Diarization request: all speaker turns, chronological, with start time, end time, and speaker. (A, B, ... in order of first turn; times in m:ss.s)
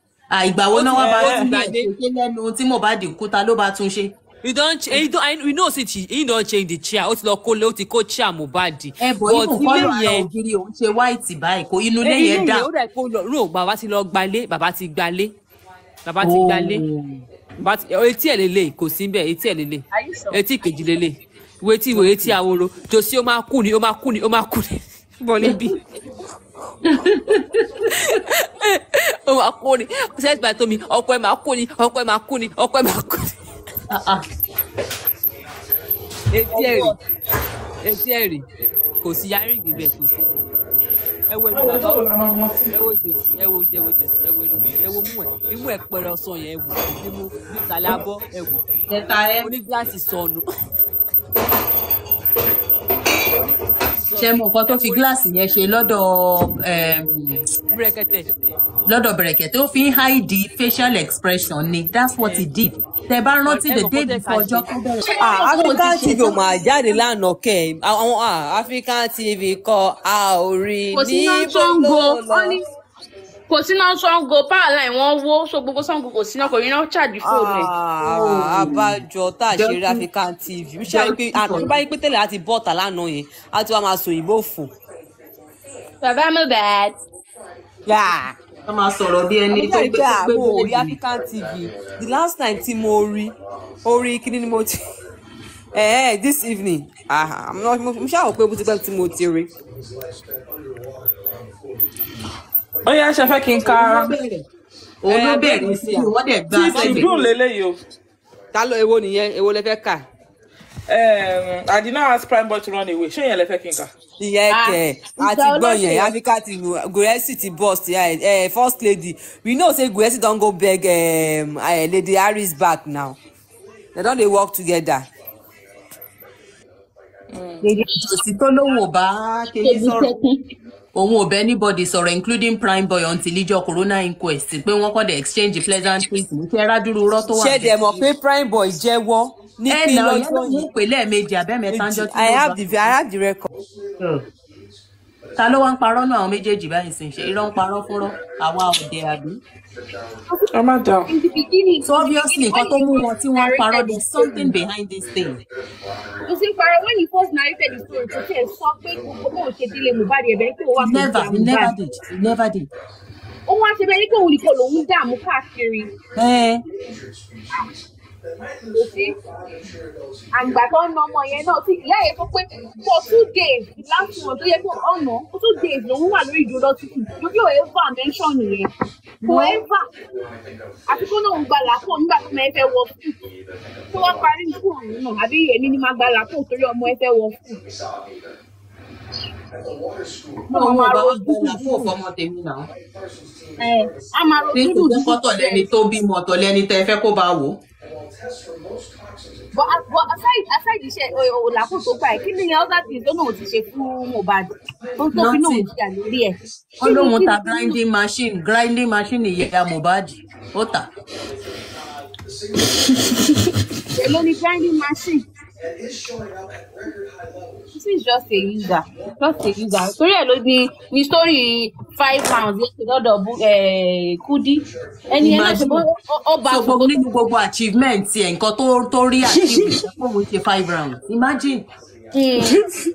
0:00.3-0:04.2 A
0:00.7-0:01.9 B
0:00.9-0:01.5 C
0:04.4-0:10.3 B
0:09.0-0:12.7 A
0:12.0-0:15.4 B
0:16.0-0:16.8 B
0:16.2-0:17.2 A
0:17.6-0:25.8 B
0:19.9-0:20.4 D
0:21.9-0:22.3 A
0:25.4-0:25.7 A
0:26.9-0:27.6 A
0:27.8-0:33.4 B
0:33.9-0:34.2 A
0:36.3-0:37.0 B
0:36.6-0:37.0 D
0:37.8-0:38.5 B
0:39.0-0:40.5 B
0:41.3-0:42.0 B
0:41.5-0:42.8 C
0:42.7-0:48.7 B
0:48.9-0:49.5 A
0:49.4-0:50.5 B
0:54.1-0:55.1 B
0:54.1-0:57.4 A
0:57.7-0:58.3 B
0:58.9-1:05.2 A
1:03.4-1:12.6 B
1:05.0-1:06.6 D
1:10.9-1:12.6 D
1:13.5-1:17.7 D
1:17.2-1:24.7 B
1:18.0-1:19.0 A
1:19.5-1:20.0 A
1:20.9-1:21.7 A
1:26.0-1:27.0 D
1:27.9-1:28.4 B
1:28.7-1:31.0 A
1:29.5-1:34.7 B
1:35.7-1:39.5 B
1:42.8-1:44.2 C
1:43.6-1:44.5 A
1:45.0-1:47.1 A
1:45.1-1:46.1 B
1:46.5-1:47.8 C
1:46.8-1:47.2 B
1:48.5-1:50.1 B
1:50.9-1:53.9 C
1:54.2-2:03.2 B
1:54.5-1:56.2 D
2:04.0-2:05.1 B
2:07.3-2:07.7 C
2:07.6-2:08.2 D
2:08.0-2:10.1 A
2:09.6-2:10.4 D
2:10.9-2:18.0 A
2:17.3-2:20.7 B
2:19.7-2:22.9 A
2:21.7-2:23.5 B
2:24.0-2:24.2 A
2:25.4-2:29.4 A
2:30.5-2:31.1 C
2:31.1-2:34.6 D
2:31.8-2:35.4 A
2:36.3-2:41.8 D
2:40.8-2:42.7 A
2:43.5-2:45.9 D
2:46.2-2:46.6 A
2:48.7-2:49.2 D
2:50.3-2:58.7 D
2:59.2-2:59.9 D
2:59.2-2:59.6 A
3:00.9-3:03.2 D
3:03.9-3:07.6 D
3:10.5-3:11.9 D
3:10.5-3:12.7 A
3:13.6-3:15.7 D
3:14.5-3:17.6 A
3:19.5-3:27.8 D
3:25.1-3:25.7 A
3:26.8-3:30.9 A
3:33.9-3:35.3 D
3:37.7-3:47.0 D
3:45.2-3:45.9 A
3:46.4-3:51.7 A
3:49.3-3:49.9 C
3:52.1-3:52.6 D
3:52.4-3:52.8 C